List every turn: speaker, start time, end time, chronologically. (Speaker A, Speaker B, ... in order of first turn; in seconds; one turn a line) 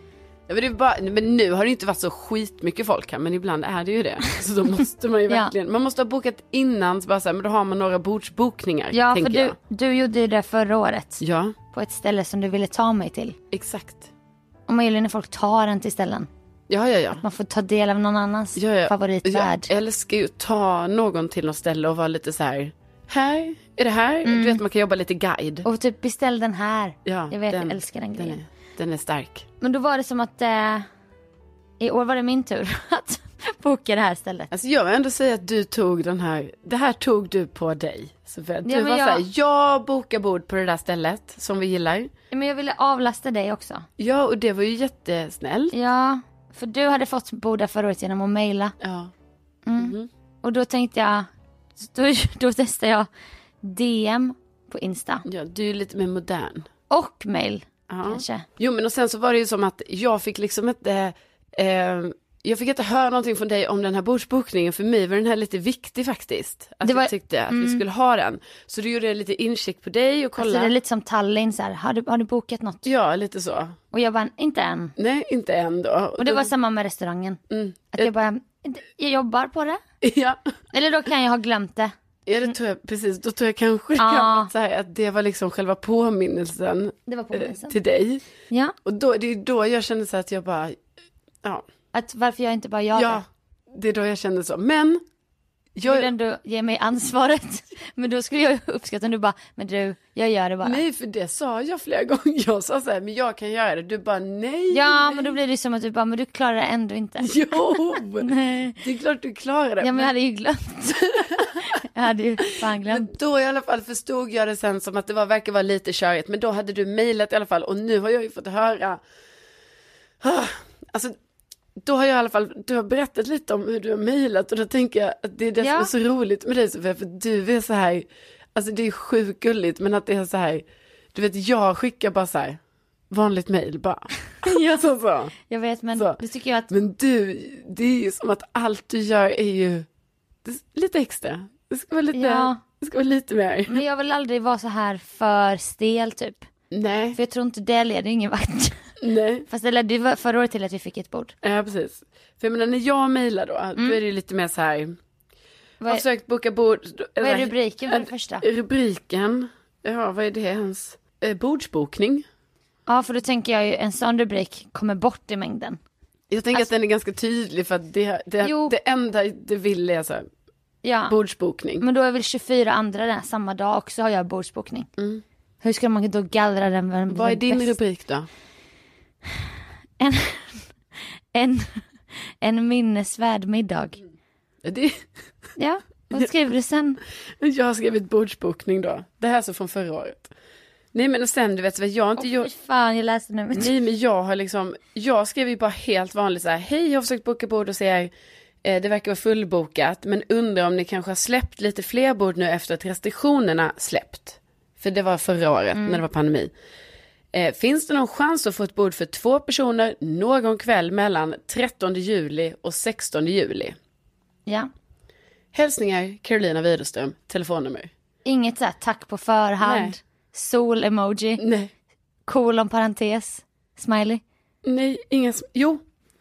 Speaker A: 0.5-9.6
Speaker B: 8.9-13.3
Speaker A: 11.2-11.5
Speaker A: 13.5-14.1
Speaker B: 14.7-16.3
Speaker A: 16.7-17.2
Speaker B: 17.2-19.7
Speaker A: 18.6-25.6
Speaker B: 24.2-24.6
Speaker B: 25.6-28.4
Speaker A: 27.1-29.4
Speaker B: 29.6-30.9
Speaker B: 31.8-34.5
Speaker A: 34.5-42.1
Speaker B: 38.6-39.2
Speaker B: 42.3-43.9
Speaker A: 44.0-45.7
Speaker B: 45.7-48.7
Speaker A: 48.8-49.1
Speaker B: 49.6-51.3
Speaker A: 49.8-50.1
Speaker B: 51.8-53.1
Speaker B: 53.6-55.2
Speaker A: 55.3-56.7
Speaker B: 56.9-58.4
Speaker A: 57.9-70.7
Speaker B: 66.8-67.8
Speaker B: 70.4-72.9
Speaker A: 72.8-73.8
Speaker B: 73.9-74.9
Speaker A: 75.0-76.5
Speaker B: 76.2-77.4
Speaker A: 77.5-78.1
Speaker B: 77.9-79.8
Speaker A: 80.0-80.4
Speaker B: 80.7-81.9
Speaker A: 82.3-88.2
Speaker B: 84.0-84.5
Speaker B: 87.1-87.7
Speaker B: 88.5-88.7
Speaker A: 88.8-90.8
Speaker B: 91.9-93.2
Speaker A: 92.9-95.0
Speaker A: 95.7-96.1
Speaker B: 95.8-100.8
Speaker A: 100.6-105.4
Speaker B: 104.7-108.8
Speaker A: 107.2-110.1
Speaker B: 109.8-113.1
Speaker A: 111.2-111.4
Speaker A: 112.8-119.0
Speaker A: 120.2-121.2
Speaker A: 121.8-132.6
Speaker B: 125.6-125.9
Speaker A: 133.1-135.3
Speaker B: 134.4-134.8
Speaker B: 135.5-136.7
Speaker A: 136.7-139.8
Speaker A: 140.4-143.8
Speaker B: 142.1-142.6
Speaker B: 143.7-146.5
Speaker A: 146.7-147.2
Speaker B: 147.1-148.8
Speaker A: 149.0-149.5
Speaker B: 149.5-151.3
Speaker A: 151.4-154.9
Speaker A: 155.9-162.2
Speaker B: 157.2-158.4
Speaker B: 162.9-165.8
Speaker A: 166.3-170.3
Speaker B: 168.4-168.7
Speaker B: 170.8-171.1
Speaker A: 171.1-171.8
Speaker B: 171.8-174.9
Speaker A: 175.0-175.2
Speaker B: 175.6-177.7
Speaker A: 177.1-178.3
Speaker B: 180.0-180.7
Speaker B: 181.3-181.8
Speaker B: 182.4-184.0
Speaker A: 184.6-185.0
Speaker B: 185.6-187.0
Speaker A: 187.4-190.3
Speaker A: 190.9-192.5
Speaker B: 192.2-193.7
Speaker A: 193.5-198.1
Speaker A: 198.6-206.5
Speaker B: 205.8-206.0
Speaker A: 207.3-213.8
Speaker A: 215.5-217.9
Speaker B: 218.2-221.4
Speaker A: 219.6-219.9
Speaker A: 221.4-221.7
Speaker B: 222.3-224.2
Speaker A: 224.6-225.8